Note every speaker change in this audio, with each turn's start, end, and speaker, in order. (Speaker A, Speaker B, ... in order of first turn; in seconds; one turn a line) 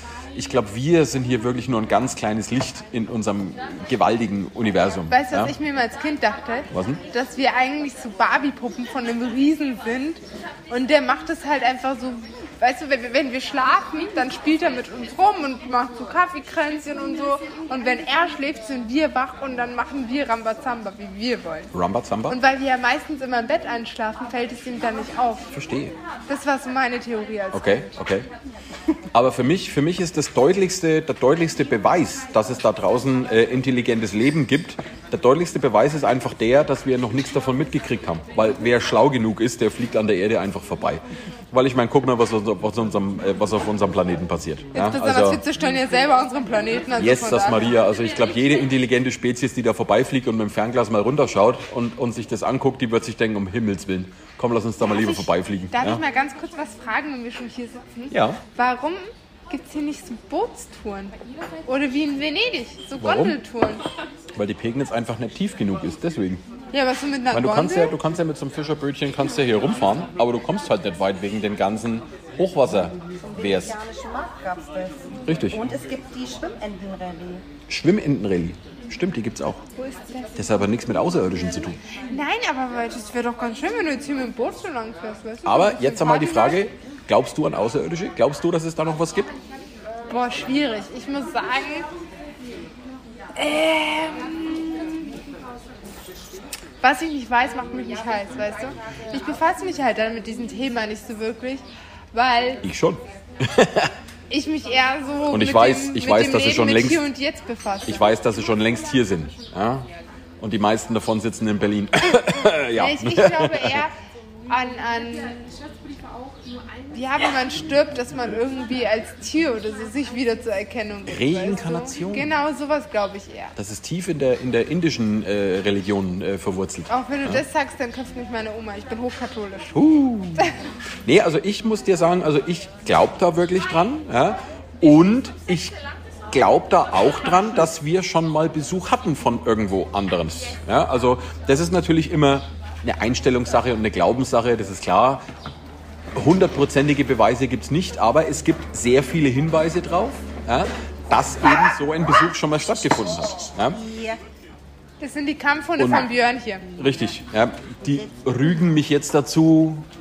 Speaker A: 0.3-5.5
Speaker B: 5.1-21.7
Speaker A: 6.7-7.0
Speaker A: 21.7-22.4
Speaker B: 22.3-25.5
Speaker A: 25.5-25.9
Speaker B: 26.3-27.9
Speaker A: 27.5-28.3
Speaker A: 29.1-45.4
Speaker B: 44.7-47.7
Speaker A: 47.0-56.0
Speaker B: 55.0-61.1
Speaker A: 58.1-58.4
Speaker B: 61.6-63.8
Speaker A: 63.0-63.4
Speaker A: 64.4-66.4
Speaker B: 66.7-67.9
Speaker A: 67.3-73.8
Speaker C: 73.2-77.5
Speaker A: 75.3-75.6
Speaker A: 77.7-79.6
Speaker B: 79.8-80.5
Speaker A: 80.4-81.8
Speaker B: 82.1-86.6
Speaker A: 85.5-89.3
Speaker B: 90.1-91.9
Speaker B: 93.3-95.1
Speaker B: 96.8-102.6
Speaker A: 102.6-103.9
Speaker B: 104.3-108.0
Speaker A: 105.3-107.1
Speaker A: 107.9-109.9
Speaker A: 110.4-113.8
Speaker B: 112.8-113.9
Speaker B: 114.5-115.6
Speaker B: 116.9-123.5
Speaker A: 121.1-122.3
Speaker A: 123.6-127.4
Speaker B: 126.9-129.8
Speaker A: 129.7-130.5
Speaker A: 131.1-135.7
Speaker A: 136.3-145.2
Speaker A: 146.1-153.8
Speaker C: 153.8-154.2
Speaker B: 155.0-156.6
Speaker A: 155.8-156.1
Speaker A: 156.8-159.9